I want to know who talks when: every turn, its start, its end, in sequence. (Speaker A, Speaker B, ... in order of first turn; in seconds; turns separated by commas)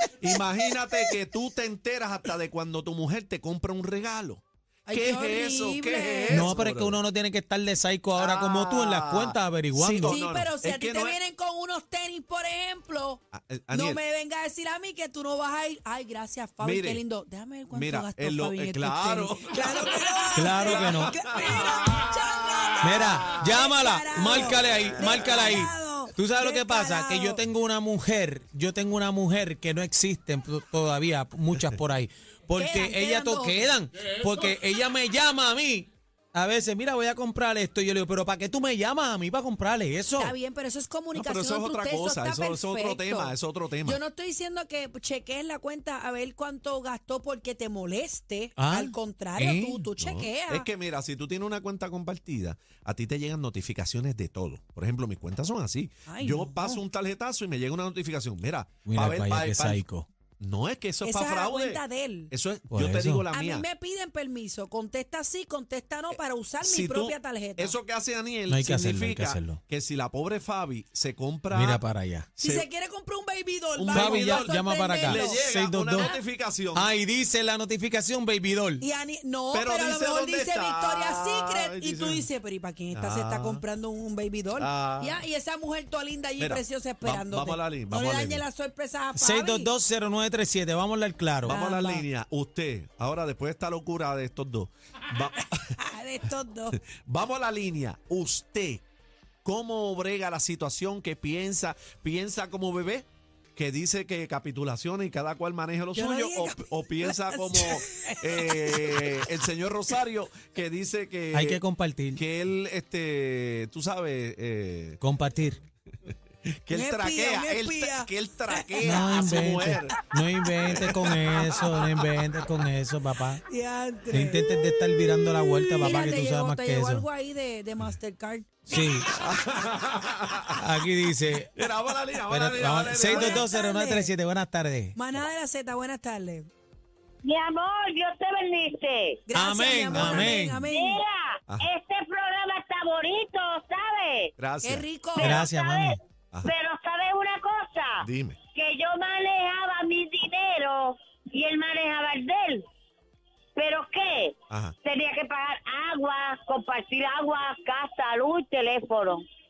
Speaker A: 0.2-7.0, Speaker B: 4.9-6.5, Speaker C: 6.3-10.2, Speaker A: 8.2-11.2, Speaker B: 10.0-27.4, Speaker A: 13.3-14.0, Speaker A: 16.6-17.0, Speaker A: 17.7-23.4, Speaker C: 20.4-21.2, Speaker C: 22.8-40.3, Speaker A: 24.6-25.3, Speaker B: 32.6-33.7, Speaker B: 40.2-50.7, Speaker A: 41.1-44.0, Speaker C: 48.6-48.9, Speaker A: 49.4-59.8, Speaker B: 56.1-56.8, Speaker C: 58.9-60.1, Speaker A: 60.4-63.6, Speaker B: 61.0-62.3, Speaker C: 62.7-63.2, Speaker B: 63.3-67.8, Speaker A: 66.1-71.8, Speaker C: 68.5-69.6, Speaker C: 71.5-72.3, Speaker A: 72.4-72.7, Speaker B: 72.4-75.5, Speaker A: 73.8-76.9, Speaker C: 73.9-76.1, Speaker C: 76.7-78.8, Speaker B: 78.8-89.7, Speaker A: 79.5-82.3, Speaker A: 82.9-83.6, Speaker A: 84.6-85.2, Speaker A: 86.4-88.5, Speaker C: 89.2-91.6, Speaker A: 91.4-95.8, Speaker B: 91.5-92.1, Speaker B: 95.8-96.8, Speaker A: 96.7-98.8, Speaker A: 99.5-111.6, Speaker B: 105.9-109.3, Speaker C: 111.3-112.2, Speaker A: 112.2-115.0, Speaker C: 115.0-115.6, Speaker A: 116.5-120.0, Speaker B: 116.7-119.8, Speaker C: 118.8-123.4, Speaker A: 120.6-122.1, Speaker B: 123.5-124.5, Speaker C: 124.1-127.1, Speaker A: 124.5-126.2, Speaker B: 125.8-128.8, Speaker C: 128.7-129.1, Speaker A: 129.0-130.6, Speaker C: 130.6-131.7, Speaker A: 131.6-133.5, Speaker C: 132.3-135.0, Speaker B: 133.0-134.1, Speaker B: 134.9-136.5, Speaker D: 137.2-139.2, Speaker B: 139.3-141.0, Speaker C: 139.3-140.7, Speaker A: 139.9-140.3, Speaker D: 140.6-144.3, Speaker A: 144.4-144.9, Speaker B: 144.6-145.4, Speaker D: 145.2-152.6, Speaker C: 145.2-146.0, Speaker A: 148.0-148.4, Speaker D: 153.6-159.2, Speaker A: 154.5-154.8